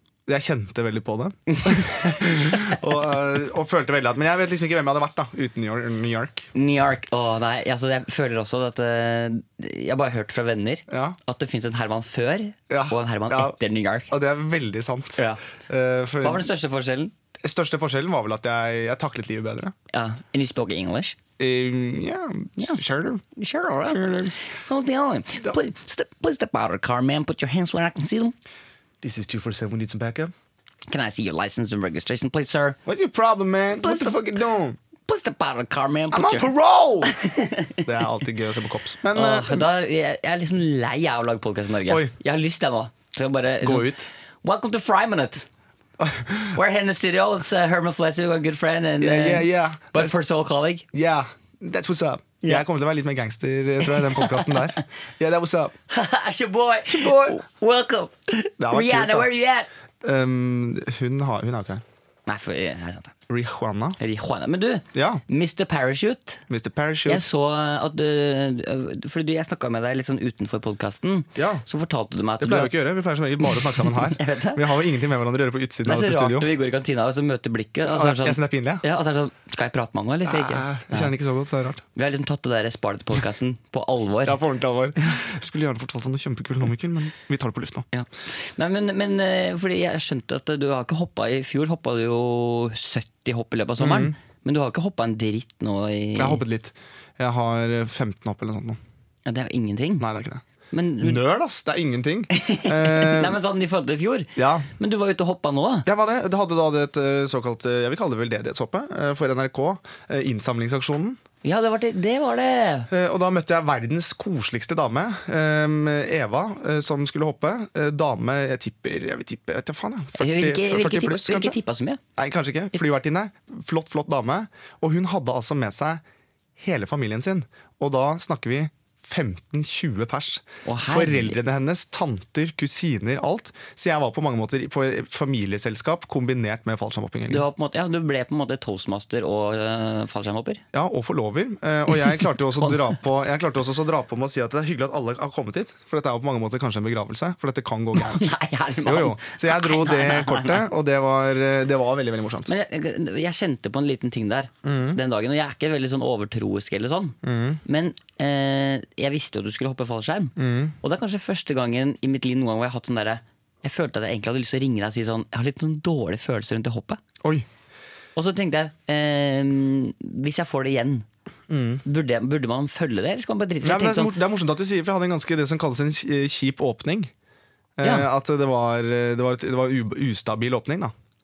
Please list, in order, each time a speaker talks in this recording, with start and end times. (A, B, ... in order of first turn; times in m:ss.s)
0:00.3-0:06.5 A
0:01.7-0:01.9 B
0:06.5-0:14.1 B
0:10.9-0:11.2 A
0:12.7-0:13.6 A
0:14.1-0:16.5 A
0:16.2-0:17.1 B
0:17.4-0:19.7 A
0:19.9-0:21.2 B
0:21.4-0:23.2 A
0:23.4-0:28.3 B
0:23.8-0:24.3 A
0:29.0-0:30.3 A
0:30.9-0:32.8 B
0:32.9-0:34.8 A
0:33.8-0:34.3 B
0:35.1-0:36.5 B
0:36.1-0:37.2 A
0:37.0-0:37.8 B
0:37.8-0:39.7 A
0:39.1-0:43.9 B
0:41.9-0:42.1 A
0:43.6-0:44.1 A
0:44.4-0:45.5 B
0:46.0-0:46.6 A
0:46.5-0:50.9 B
0:49.0-0:50.2 A
0:50.9-0:55.7 A
0:53.8-0:54.6 B
0:55.9-0:59.7 B
0:56.9-0:57.4 A
0:58.6-0:59.3 A
1:00.0-1:01.8 A
1:02.2-1:03.1 B
1:03.3-1:04.0 A
1:04.0-1:06.4 B
1:04.9-1:05.2 A
1:06.5-1:07.3 A
1:07.0-1:12.7 B
1:11.4-1:11.6 A
1:12.4-1:16.5 A
1:13.8-1:14.7 B
1:15.8-1:21.1 B
1:17.8-1:18.8 A
1:20.2-1:21.8 A
1:21.9-1:24.4 B
1:24.2-1:27.9 A
1:27.9-1:36.4 B
1:33.8-1:34.2 A
1:36.2-1:38.8 A
1:39.2-1:40.0 B
1:40.0-1:40.4 A
1:40.7-1:41.2 B
1:41.0-1:43.4 A
1:42.3-1:45.9 B
1:44.4-1:44.7 A
1:45.9-1:51.2 A
1:51.4-1:52.9 B
1:52.9-2:01.6 A
2:00.2-2:02.0 B
2:02.2-2:06.0 A
2:06.6-2:17.4 A
2:10.6-2:11.4 B
2:17.3-2:20.6 B
2:20.7-2:28.3 A
2:21.9-2:22.9 B
2:27.9-2:30.7 B
2:28.8-2:32.5 A
2:32.5-2:47.0 B
2:34.6-2:35.0 A
2:37.2-2:37.6 A
2:40.4-2:40.8 A
2:48.1-2:51.1 B
2:51.5-2:51.8 A
2:51.8-2:54.1 B
2:53.6-2:57.1 A
2:57.8-3:00.9 A
2:57.8-2:58.1 B